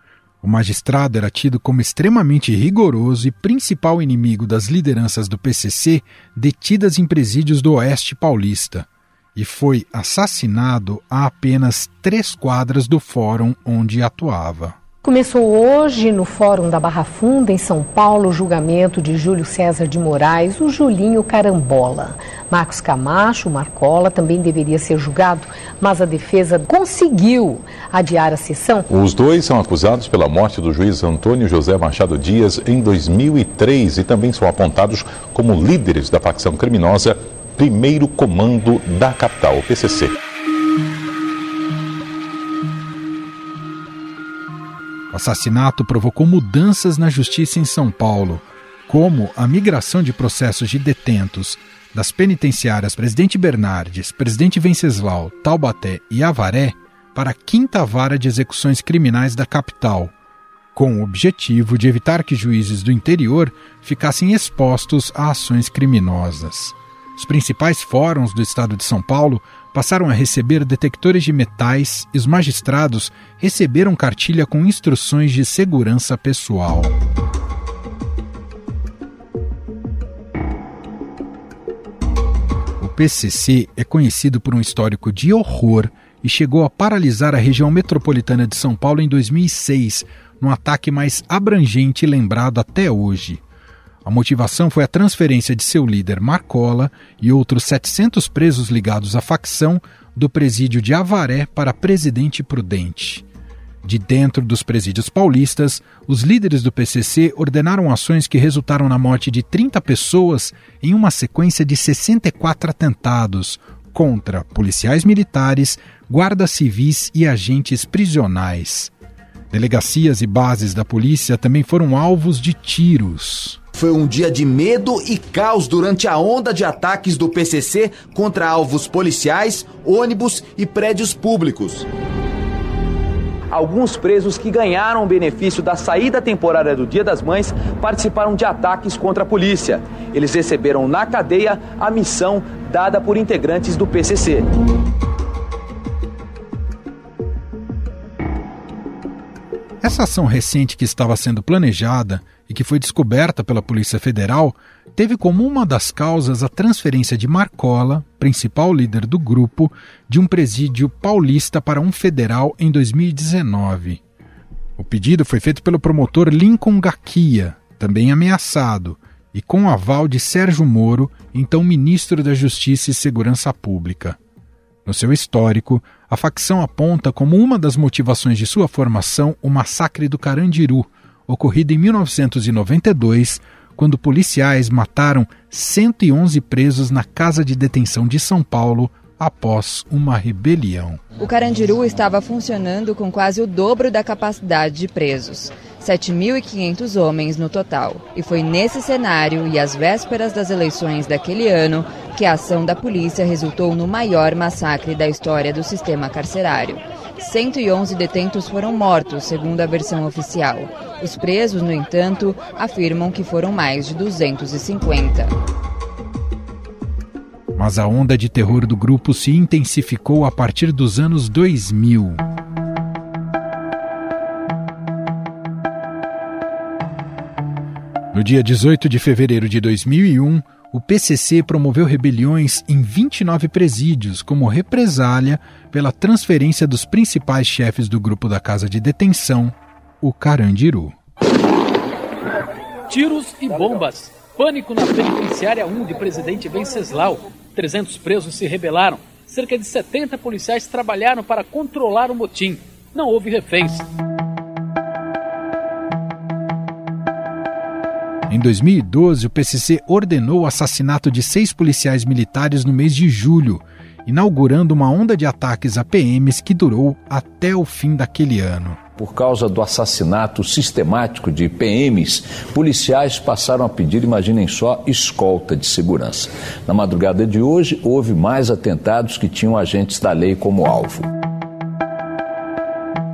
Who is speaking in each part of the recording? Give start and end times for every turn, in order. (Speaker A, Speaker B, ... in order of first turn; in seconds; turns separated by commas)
Speaker A: 0.4-14.8, Speaker B: 15.0-28.9, Speaker C: 28.9-40.1, Speaker A: 45.1-60.1, Speaker A: 60.7-76.9, Speaker A: 82.8-93.4, Speaker A: 94.0-103.2, Speaker A: 103.8-118.9, Speaker A: 119.5-123.6, Speaker D: 123.7-131.9, Speaker E: 133.5-144.4, Speaker A: 149.8-164.0, Speaker A: 164.8-174.2, Speaker A: 174.8-191.0, Speaker F: 191.2-215.3, Speaker A: 217.5-222.2, Speaker A: 228.1-240.9, Speaker G: 242.9-253.9, Speaker A: 258.3-268.8, Speaker H: 269.0-281.1